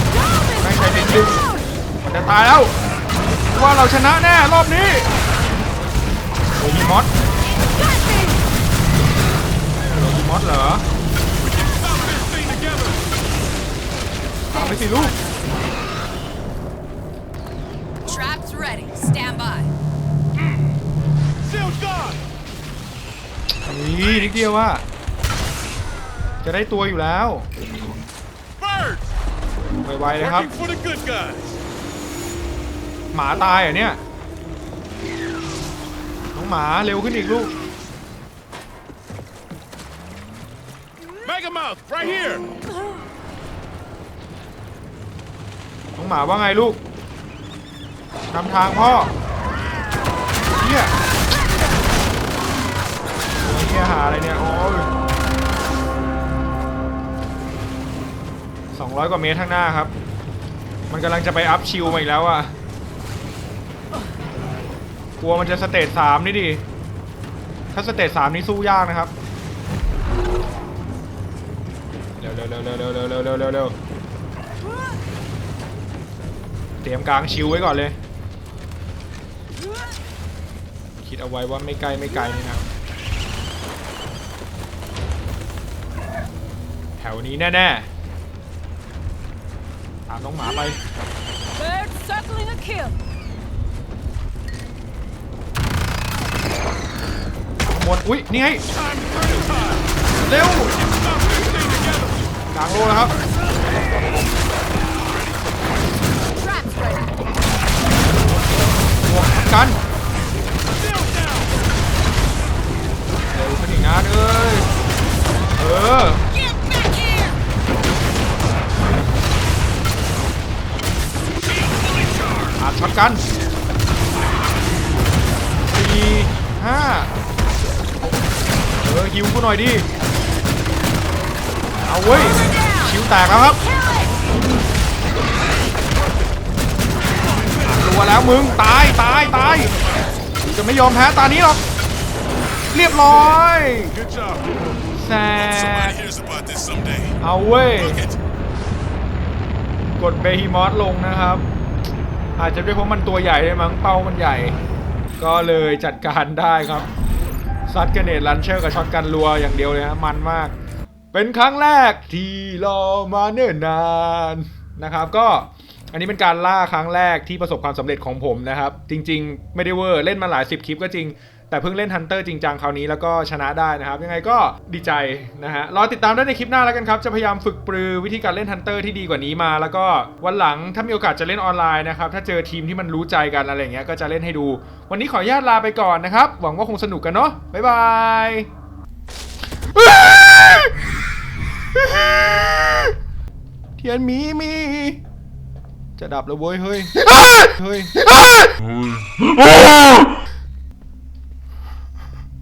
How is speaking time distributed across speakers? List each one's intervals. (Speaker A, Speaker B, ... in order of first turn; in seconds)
Speaker A: 0.3-1.2, 7.6-8.4, 14.5-15.8, 18.1-19.7, 91.5-93.0, 106.3-107.3, 116.4-117.4
Speaker B: 0.6-1.4, 2.0-2.7, 3.5-5.1, 6.6-7.1, 9.8-10.8, 14.5-15.2, 23.7-24.9, 26.4-27.5, 29.8-30.5, 33.1-34.0, 36.4-37.5, 46.0-46.8, 48.3-49.1, 50.6-50.9, 53.4-54.9, 58.7-59.9, 60.9-62.5, 65.2-66.6, 67.7-69.1, 72.2-73.8, 76.8-78.0, 81.0-82.7, 87.0-87.9, 90.1-90.8, 97.7-98.6, 100.2-100.8, 102.5-103.1, 109.0-109.8, 113.3-114.7, 115.6-116.2, 122.6-123.2, 125.7-127.1, 128.8-129.9, 131.9-133.6, 137.6-139.8, 140.4-141.6, 142.7-144.0, 144.9-146.0, 147.2-148.1, 150.0-151.4, 152.4-154.6, 155.2-156.9, 157.7-160.5, 161.1-188.5, 189.8-190.7, 191.8-192.9, 193.8-195.0, 196.0-197.9
Speaker C: 11.4-13.1, 21.4-22.2, 28.6-29.1, 30.2-31.6, 41.2-42.5, 98.7-99.9, 100.8-102.3, 110.8-111.5, 121.8-122.4, 144.0-144.6, 145.4-147.2